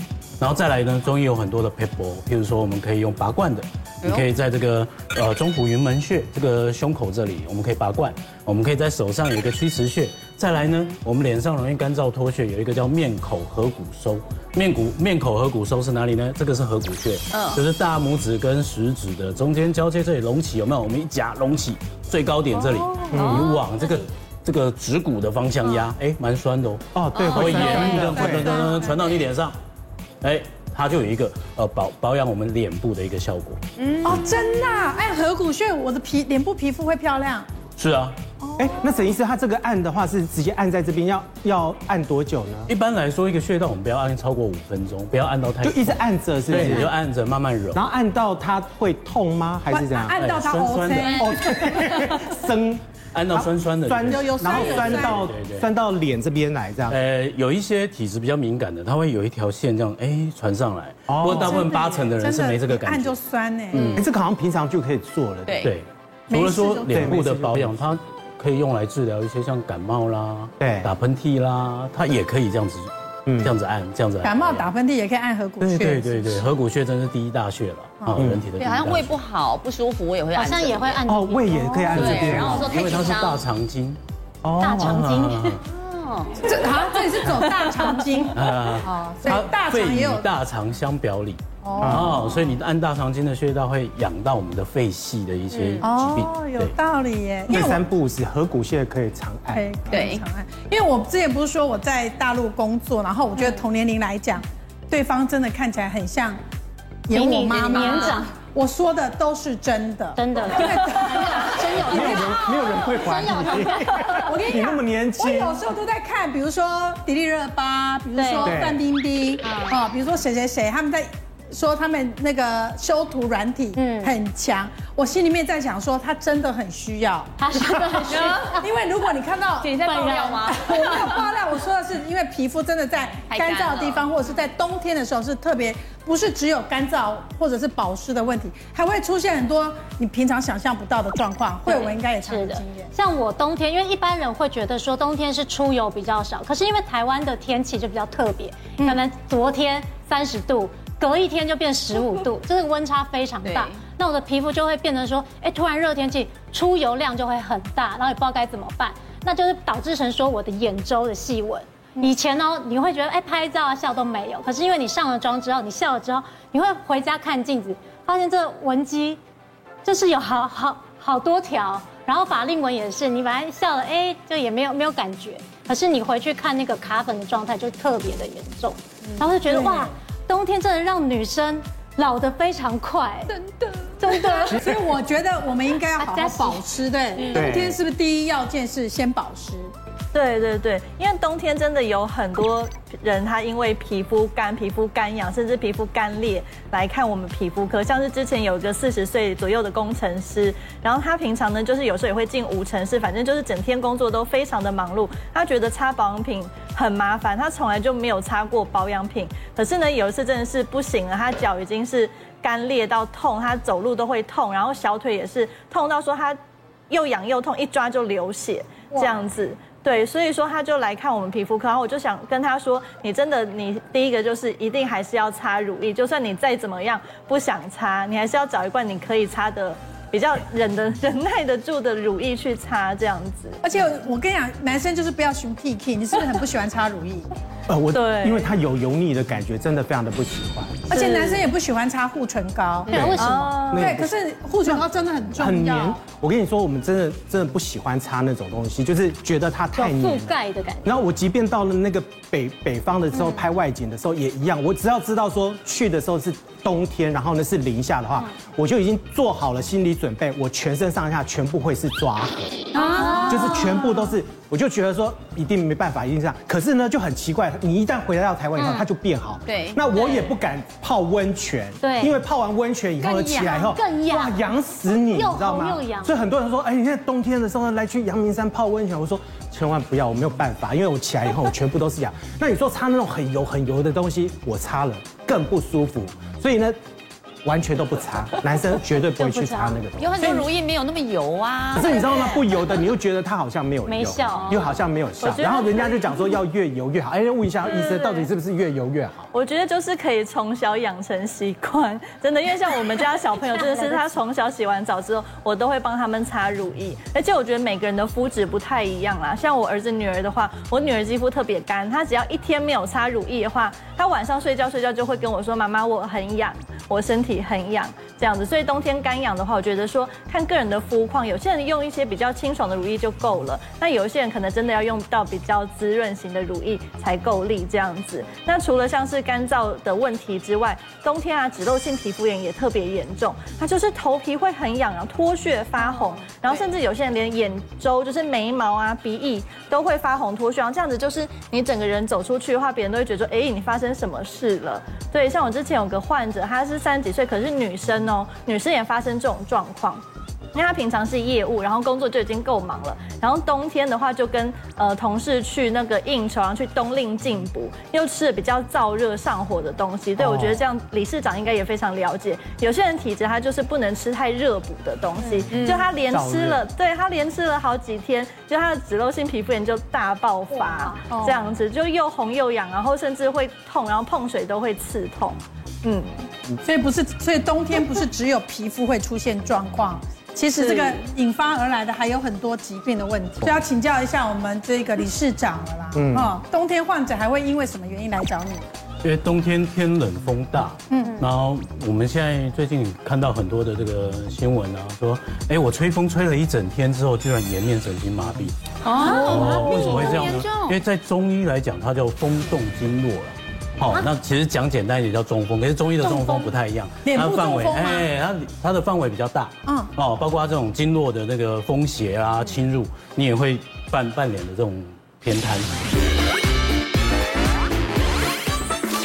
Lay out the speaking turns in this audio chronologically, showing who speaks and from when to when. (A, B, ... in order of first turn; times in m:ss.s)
0:00.4-0:29.6 A
0:04.0-0:04.3 B
0:17.3-0:17.6 B
0:22.6-0:23.7 B
0:23.1-0:23.5 C
0:26.9-0:28.7 C
0:27.1-0:28.2 B
0:28.5-0:28.8 D
0:30.2-0:34.2 A
0:33.8-0:34.3 B
0:34.0-0:37.5 D
0:37.8-0:38.2 A
0:38.4-0:38.7 D
0:38.6-0:42.7 C
0:42.7-0:47.8 A
0:45.6-0:46.9 C
0:47.7-0:50.2 C
0:49.7-0:52.0 D
0:50.2-0:51.6 A
0:51.2-0:57.0 C
0:53.1-0:55.7 A
0:54.1-0:55.2 D
0:56.9-1:03.2 A
1:01.1-1:01.6 C
1:01.3-1:04.0 D
1:03.7-1:04.1 B
1:03.8-1:05.6 C
1:05.5-1:05.7 B
1:05.6-1:14.7 A
1:06.3-1:07.2 D
1:06.8-1:07.8 C
1:10.6-1:10.9 C
1:13.3-1:13.5 C
1:14.2-1:16.5 D
1:15.6-1:19.2 A
1:18.2-1:18.4 C
1:18.6-1:21.0 B
1:20.4-1:22.0 E
1:21.1-1:22.9 C
1:21.9-1:23.4 B
1:21.9-1:24.0 A
1:24.4-1:25.0 C
1:24.6-1:25.6 E
1:24.7-1:25.6 A
1:25.6-1:26.5 B
1:26.4-1:30.3 D
1:28.3-1:36.8 A
1:31.6-1:32.1 D
1:31.8-1:32.1 C
1:32.1-1:32.6 B
1:35.5-1:35.9 B
1:35.8-1:37.8 D
1:37.5-1:39.8 C
1:39.5-1:46.4 D
1:39.9-1:40.2 B
1:47.1-1:52.2 D
1:47.1-1:48.3 E
1:50.2-1:53.9 E
1:51.8-1:55.7 C
1:54.1-2:22.9 D
1:58.2-1:58.6 E
1:58.4-1:58.8 C
2:03.8-2:04.2 E
2:07.4-2:08.7 E
2:08.1-2:08.6 B
2:09.6-2:11.2 B
2:09.9-2:10.5 E
2:13.3-2:14.1 B
2:21.6-2:49.2 E
2:33.4-2:33.8 B
2:49.8-3:03.3 E
2:59.5-2:59.9 D
3:04.0-3:04.7 E
3:04.0-3:09.7 D
3:04.5-3:04.8 C
3:06.0-3:06.6 E
3:07.2-3:07.5 B
3:07.3-3:07.8 C
3:10.1-3:36.4 F
3:36.9-3:53.6 F
3:53.6-3:57.3 D
3:57.7-4:01.1 C
3:57.9-3:58.5 F
4:00.9-4:03.2 D
4:02.9-4:03.7 E
4:02.9-4:22.7 C
4:03.2-4:04.0 F
4:03.8-4:06.0 D
4:09.8-4:10.9 E
4:13.1-4:13.4 E
4:22.7-4:23.8 B
4:22.8-4:23.7 E
4:23.3-4:46.8 C
4:28.6-4:28.9 E
4:29.5-4:30.4 B
4:31.8-4:32.2 E
4:33.0-4:36.1 E
4:47.4-4:50.4 C
4:49.2-4:49.8 E
4:50.0-4:52.8 B
4:51.7-4:59.3 C
4:53.9-4:54.6 E
4:54.3-4:56.3 B
4:57.7-4:58.3 F
4:59.3-5:50.0 F
5:50.5-6:16.2 F
6:00.2-6:00.6 C
6:05.5-6:05.9 B
6:06.1-6:06.6 C
6:10.5-6:11.0 E
6:11.1-6:11.4 D
6:16.6-6:28.7 D
6:20.6-6:20.9 F
6:26.0-6:26.4 C
6:29.0-6:55.7 A
6:31.0-6:31.2 E
6:38.8-6:40.8 B
6:39.1-6:39.4 E
6:39.1-6:39.7 D
6:47.0-6:48.1 D